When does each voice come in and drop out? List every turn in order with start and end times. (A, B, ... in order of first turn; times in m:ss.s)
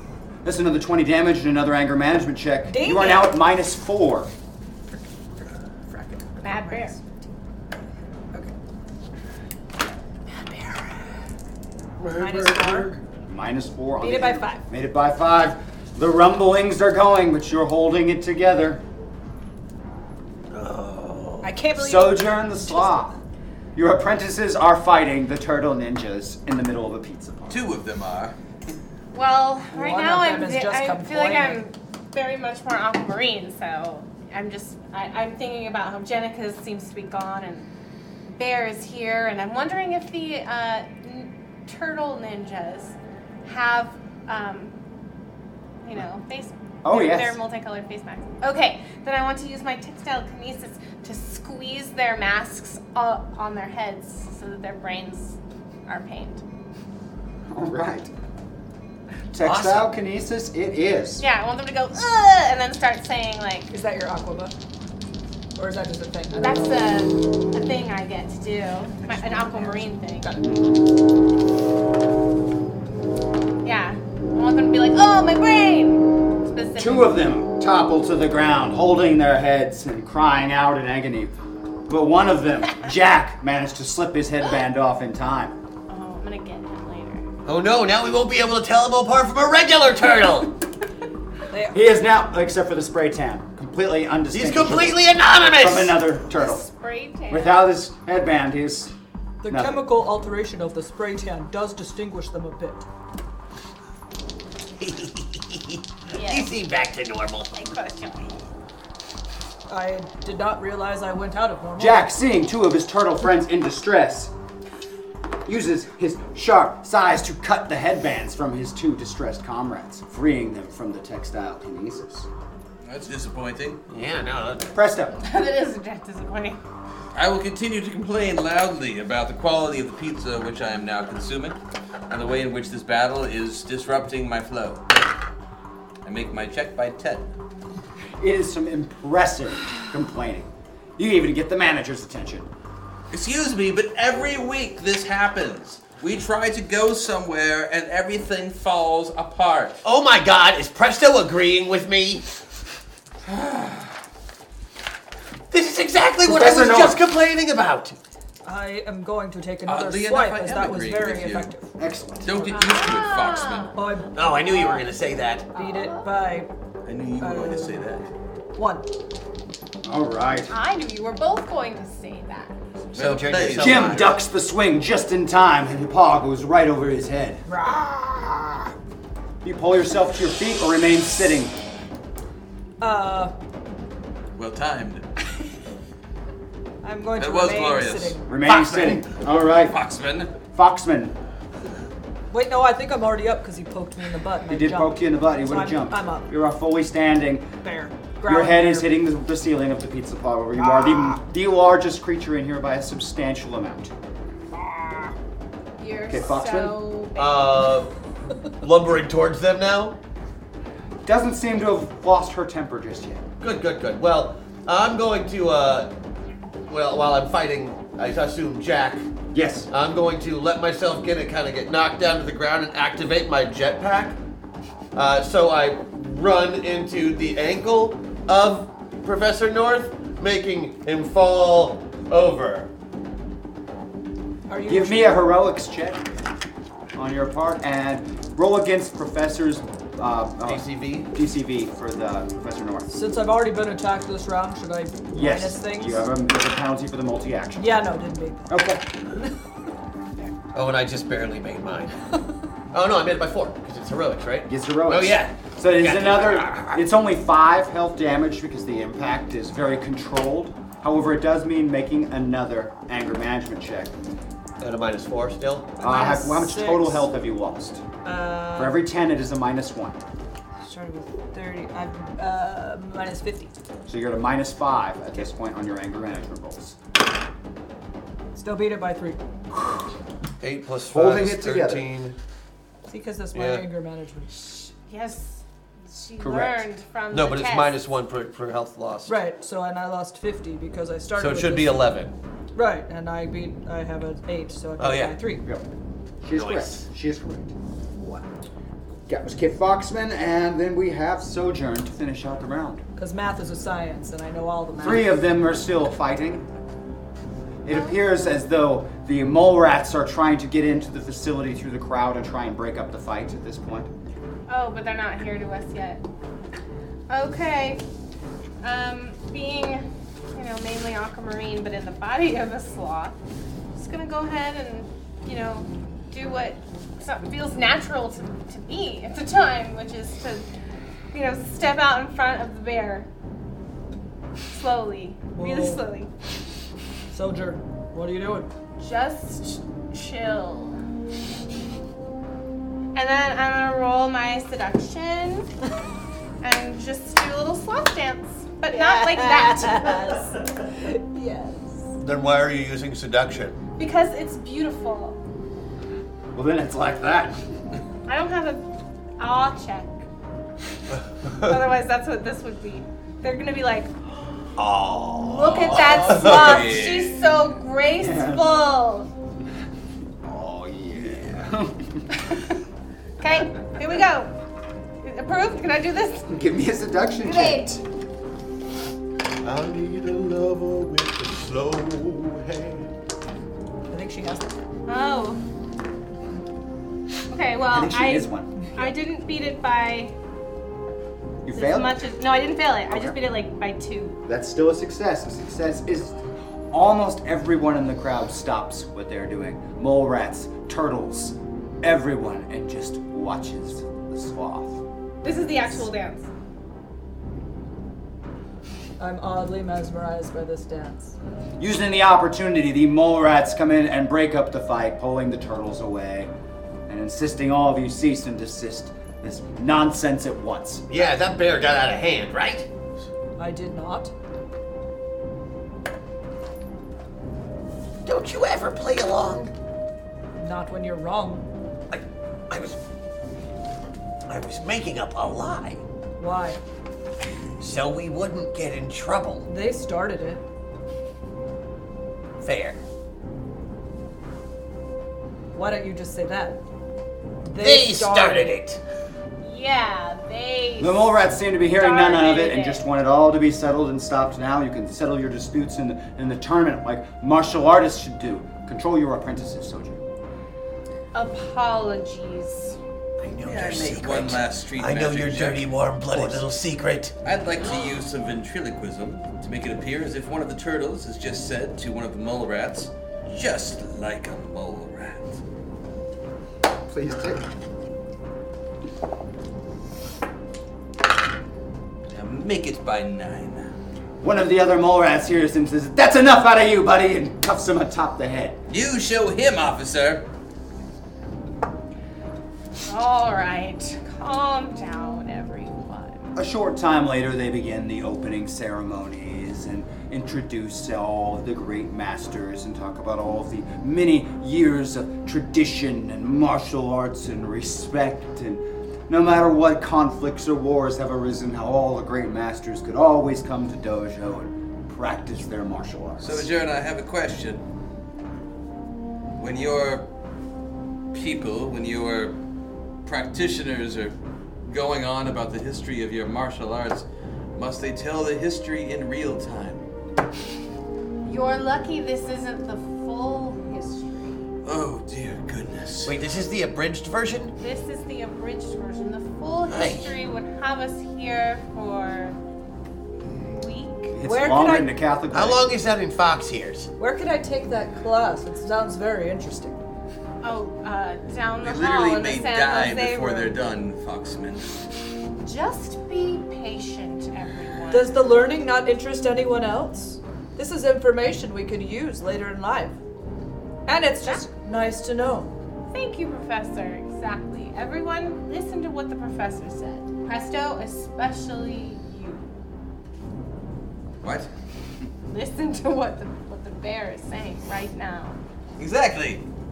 0:00.4-0:04.3 A
0:02.7-0:03.4 B
0:05.9-0:07.3 B
0:06.4-0:07.0 C
0:10.3-0:11.0 B
0:12.0-0:13.0 D
0:12.1-0:13.0 B
0:13.3-0:18.8 A
0:14.0-0:14.6 B
0:20.5-0:21.5 D
0:21.4-0:23.1 B
0:21.8-0:23.2 A
0:23.7-0:27.6 A
0:27.5-0:28.3 E
0:29.1-0:37.7 C
0:29.7-0:31.6 B
0:38.3-0:44.7 C
0:45.8-0:56.4 C
0:46.8-0:47.4 A
0:57.5-0:58.1 A
0:59.3-1:01.2 A
0:59.4-0:59.9 D
1:01.2-1:03.7 C
1:03.7-1:04.5 B
1:05.6-1:06.9 B
1:06.4-1:10.3 C
1:09.0-1:10.5 B
1:10.4-1:10.8 A
1:13.6-1:17.2 C
1:16.8-1:21.3 A
1:21.9-1:25.6 A
1:25.9-1:27.2 C
1:27.4-1:30.6 D
1:31.5-1:31.8 B
1:31.7-1:35.0 A
1:34.3-1:36.0 D
1:35.5-1:36.6 A
1:36.3-1:37.7 C
1:37.3-1:38.9 A
1:39.4-1:42.8 B
1:39.5-1:39.8 A
1:44.8-1:47.6 D
1:46.1-1:46.5 C
1:47.5-1:48.3 C
1:49.7-1:52.1 B
1:51.8-1:54.3 A
1:55.4-2:02.3 A
2:02.8-2:03.8 E
2:03.9-2:04.7 D
2:04.7-2:05.2 A
2:05.2-2:06.6 C
2:07.1-2:11.6 E
2:12.1-2:14.9 E
2:16.0-2:17.3 E
2:18.2-2:22.5 A
2:23.1-2:29.8 E
2:29.8-2:32.2 D
2:33.3-2:33.6 E
2:35.5-2:38.0 D
2:36.2-2:37.0 A
2:38.4-2:41.7 B
2:39.6-2:41.5 E
2:41.8-2:42.6 A
2:42.2-2:43.7 E
2:42.5-2:43.8 C
2:43.7-2:44.1 B
2:44.1-2:45.5 D
2:44.4-2:44.8 C
2:45.5-2:46.5 B
2:45.6-2:46.0 C
2:46.8-2:48.1 E
2:47.2-2:47.8 B
2:48.6-2:48.9 B
2:49.8-2:50.6 A
2:50.5-2:52.5 C
2:52.9-2:54.1 E
2:52.9-2:54.2 D
2:53.6-2:57.4 A
2:57.5-2:58.7 B
2:59.4-3:01.5 A
3:02.8-3:03.3 B
3:04.3-3:05.0 E
3:06.8-3:09.0 B
3:07.2-3:10.3 E
3:08.3-3:09.8 A
3:10.5-3:11.1 A
3:12.3-3:16.3 B
3:14.5-3:17.5 A
3:17.6-3:19.0 B
3:18.2-3:24.0 A
3:25.8-3:27.6 C
3:26.1-3:26.9 A
3:27.1-3:27.9 D
3:28.6-3:30.0 D
3:31.0-3:33.3 A
3:33.4-3:35.9 D
3:36.7-3:39.1 D
3:39.3-3:39.7 A
3:39.7-3:44.2 D
3:44.9-3:52.7 D
3:54.5-3:55.2 B
3:54.7-3:56.0 A
3:56.9-4:02.9 A
4:00.4-4:01.1 D
4:02.9-4:06.0 B
4:05.1-4:07.7 A
4:07.5-4:08.5 B
4:08.5-4:09.0 A
4:10.5-4:12.0 D
4:12.7-4:16.8 D
4:14.4-4:23.9 A
4:24.6-4:25.8 D
4:25.8-4:27.1 B
4:25.8-4:27.9 A
4:28.0-4:28.8 B
4:28.5-4:30.0 A
4:30.6-4:33.5 B
4:33.9-4:36.8 A
4:38.3-4:39.2 B
4:39.5-4:39.8 A
4:40.4-4:42.2 D
4:40.9-4:41.8 A
4:42.9-4:44.6 B
4:43.3-4:43.6 D
4:44.8-4:45.4 C
4:45.9-4:47.8 C
4:46.2-4:46.7 A
4:47.1-4:49.2 D
4:49.0-4:51.9 B
4:51.2-4:52.1 D
4:52.5-4:55.4 B
4:54.8-4:55.2 D
4:56.2-4:57.5 A
4:56.3-4:56.9 D
4:59.1-5:02.8 A
5:03.0-5:05.2 B
5:04.8-5:06.4 A
5:07.6-5:13.9 A
5:07.7-5:08.0 C
5:14.5-5:16.0 C
5:17.1-5:17.8 C
5:18.6-5:23.2 C
5:23.7-5:30.4 C
5:31.1-5:33.1 C
5:34.5-5:36.1 C
5:35.3-5:35.8 B
5:37.1-5:38.5 B
5:38.8-5:40.8 C
5:42.9-5:45.5 C
5:46.4-5:50.0 C
5:48.7-5:51.9 B
5:52.0-5:53.6 D
5:53.8-5:55.2 C
5:56.3-5:57.4 A
5:58.1-5:58.7 C
5:59.2-6:00.0 C
6:01.4-6:03.9 C
6:04.6-6:06.7 D
6:05.3-6:09.1 C
6:05.7-6:07.2 E
6:08.0-6:08.5 A
6:10.2-6:12.0 A
6:12.1-6:12.5 C
6:13.2-6:14.3 C
6:15.0-6:16.4 C
6:16.3-6:17.8 A
6:17.2-6:17.7 C
6:19.4-6:22.9 D
6:23.9-6:24.5 B
6:24.9-6:25.4 C
6:27.3-6:30.1 C
6:27.7-6:28.9 A
6:31.4-6:32.0 A
6:31.5-6:34.2 C
6:32.9-6:33.2 A
6:34.3-6:36.2 A
6:36.7-6:44.8 A
6:45.2-6:46.3 C
6:49.0-6:51.1 B
6:51.6-6:56.3 A
6:56.9-7:01.1 A
7:00.9-7:02.7 D
7:03.4-7:04.1 B
7:08.0-7:09.5 D
7:10.4-7:11.4 B
7:11.9-7:12.8 D
7:14.3-7:15.8 D
7:16.2-7:16.6 B
7:17.6-7:19.5 D
7:19.5-7:20.4 B
7:22.4-7:22.8 D
7:25.5-7:26.6 B
7:27.4-7:28.6 B
7:27.6-7:28.8 D
7:29.4-7:31.2 C
7:30.8-7:40.0 A
7:31.7-7:32.8 C
7:41.1-7:42.8 C
7:43.2-7:47.1 D
7:43.4-7:46.2 E
7:46.1-7:46.4 A
7:47.2-7:55.4 E
7:56.9-7:57.5 A
8:02.1-8:03.7 E
8:04.2-8:08.6 A
8:08.7-8:10.2 E
8:12.8-8:16.3 C
8:16.3-8:36.5 A
8:36.2-8:37.6 E
8:39.4-8:40.0 E
8:41.1-8:42.4 E
8:43.0-8:44.1 E
8:44.6-8:49.8 E
8:51.2-8:54.4 C
8:54.6-8:56.2 E
8:56.0-8:57.5 D
8:57.6-9:02.4 C
8:59.7-9:00.1 D
9:03.3-9:04.2 C
9:04.1-9:05.7 A
9:04.2-9:04.9 B
9:05.3-9:06.9 D
9:07.0-9:09.8 B
9:10.4-9:13.6 C
9:11.6-9:14.8 E
9:15.4-9:18.2 C
9:17.9-9:23.0 B
9:23.9-9:25.5 B
9:25.9-9:32.5 C
9:34.2-9:34.5 E
9:35.2-9:38.4 C
9:38.8-9:39.4 E